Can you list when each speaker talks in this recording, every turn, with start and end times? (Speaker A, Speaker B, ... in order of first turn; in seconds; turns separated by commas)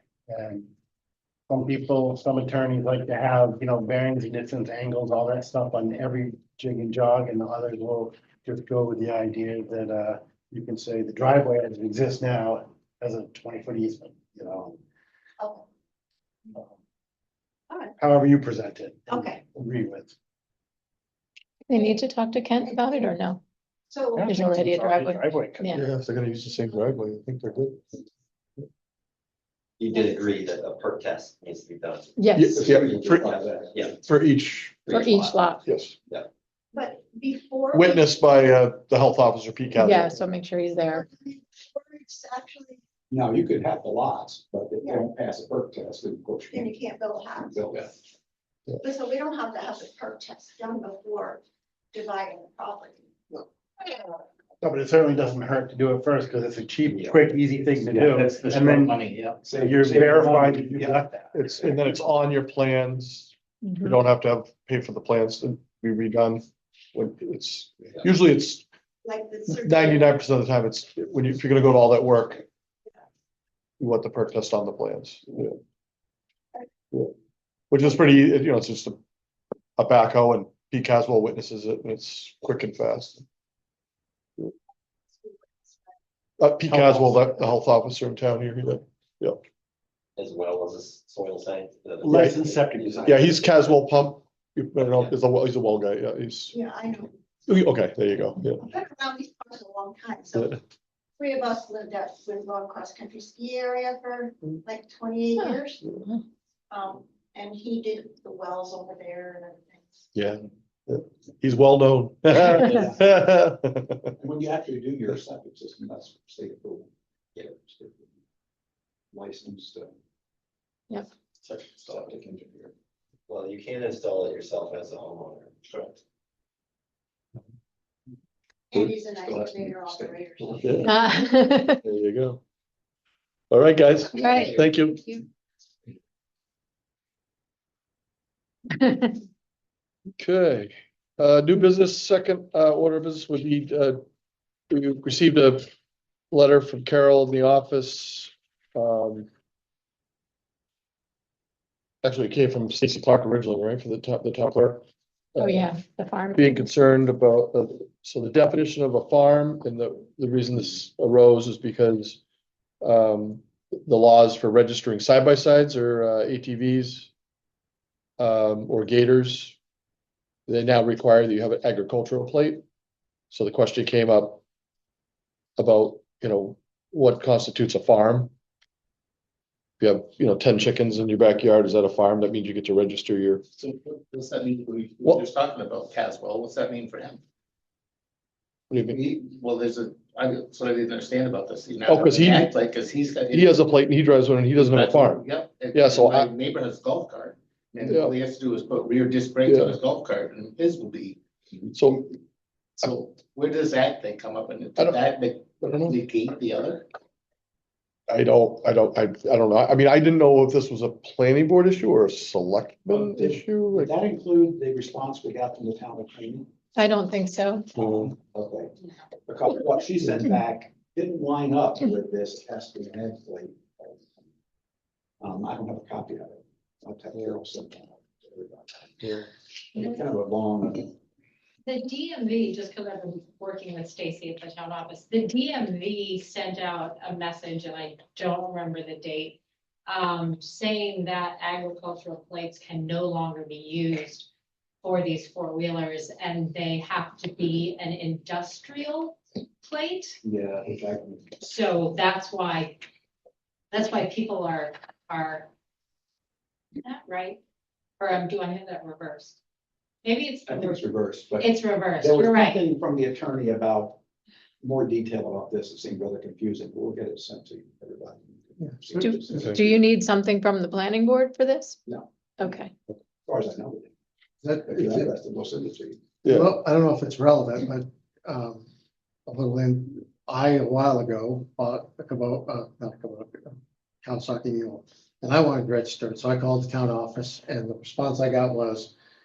Speaker A: 0.3-0.7, Speaker A: 1.5-14.8, Speaker B: 15.4-15.6, Speaker A: 18.0-20.1, Speaker B: 19.1-19.4, Speaker C: 21.7-23.4, Speaker B: 21.7-22.0, Speaker B: 22.6-23.1, Speaker B: 23.9-24.6, Speaker A: 24.1-25.7, Speaker C: 24.2-25.9, Speaker D: 25.7-27.8, Speaker E: 29.8-34.0, Speaker B: 29.9-30.3, Speaker C: 32.1-32.6, Speaker D: 32.3-33.4, Speaker F: 32.4-33.9, Speaker D: 33.9-35.0, Speaker C: 34.9-35.6, Speaker E: 34.9-35.4, Speaker D: 35.6-36.0, Speaker B: 36.7-38.1, Speaker D: 37.7-40.2, Speaker C: 39.7-41.0, Speaker B: 40.8-42.8, Speaker F: 43.1-46.8, Speaker B: 44.8-45.0, Speaker B: 46.5-47.8, Speaker F: 47.4-47.9, Speaker B: 48.8-51.4, Speaker B: 51.9-53.1, Speaker A: 54.6-61.3, Speaker F: 57.8-61.1, Speaker D: 61.3-66.4, Speaker C: 63.6-64.0, Speaker D: 66.9-68.6, Speaker B: 69.0-70.1, Speaker D: 69.5-72.4, Speaker D: 73.8-75.5, Speaker D: 77.7-79.0, Speaker D: 79.8-83.2, Speaker B: 85.2-85.5, Speaker D: 86.4-89.4, Speaker E: 90.2-93.1, Speaker A: 92.0-93.2, Speaker D: 92.1-92.4, Speaker D: 93.0-96.6, Speaker B: 96.5-97.1, Speaker D: 97.5-98.6, Speaker B: 98.6-100.6, Speaker B: 101.2-105.9, Speaker C: 105.4-106.2, Speaker B: 106.7-110.0, Speaker D: 110.1-114.1, Speaker F: 112.7-113.1, Speaker F: 114.2-116.9, Speaker F: 117.5-118.0, Speaker F: 119.1-119.9, Speaker E: 121.5-122.1, Speaker F: 121.8-122.7, Speaker E: 123.3-125.9, Speaker B: 128.7-130.9, Speaker D: 128.7-130.9, Speaker C: 130.8-131.8, Speaker D: 131.8-132.4, Speaker D: 133.5-135.2, Speaker C: 134.2-134.5, Speaker B: 134.2-134.6, Speaker E: 134.4-134.7, Speaker C: 138.8-139.1, Speaker D: 140.2-144.0, Speaker D: 144.7-145.7, Speaker D: 146.3-149.3, Speaker D: 152.0-154.8, Speaker D: 155.3-155.7, Speaker C: 155.4-156.7, Speaker D: 156.3-162.2, Speaker D: 162.8-167.1, Speaker D: 168.2-169.6, Speaker D: 170.5-172.6, Speaker D: 173.3-174.4, Speaker D: 175.6-178.3, Speaker D: 179.8-183.4, Speaker G: 183.6-187.2, Speaker D: 188.7-189.0, Speaker G: 188.8-193.6, Speaker D: 191.9-192.5, Speaker D: 193.3-196.3, Speaker G: 194.6-201.2, Speaker D: 197.8-198.1, Speaker D: 199.4-199.8, Speaker D: 201.7-202.2, Speaker G: 202.8-206.9, Speaker D: 205.6-206.0, Speaker D: 208.1-213.9, Speaker F: 212.9-216.5, Speaker C: 216.8-217.7, Speaker D: 217.8-218.1, Speaker F: 217.8-218.7, Speaker F: 219.3-224.0, Speaker F: 225.2-229.2, Speaker D: 229.0-229.3, Speaker F: 229.7-230.9, Speaker H: 231.6-244.3, Speaker H: 244.8-250.2, Speaker F: 250.2-251.4, Speaker H: 251.4-252.8, Speaker H: 253.7-255.5, Speaker H: 256.8-257.4, Speaker H: 258.0-259.4, Speaker H: 260.0-262.6, Speaker F: 260.5-264.0, Speaker F: 264.6-269.7, Speaker C: 269.0-271.8, Speaker D: 269.3-269.6, Speaker C: 272.4-272.7, Speaker F: 273.2-273.9, Speaker I: 274.4-275.1, Speaker F: 274.7-276.0, Speaker D: 276.2-276.6, Speaker I: 276.3-278.6, Speaker I: 279.3-288.9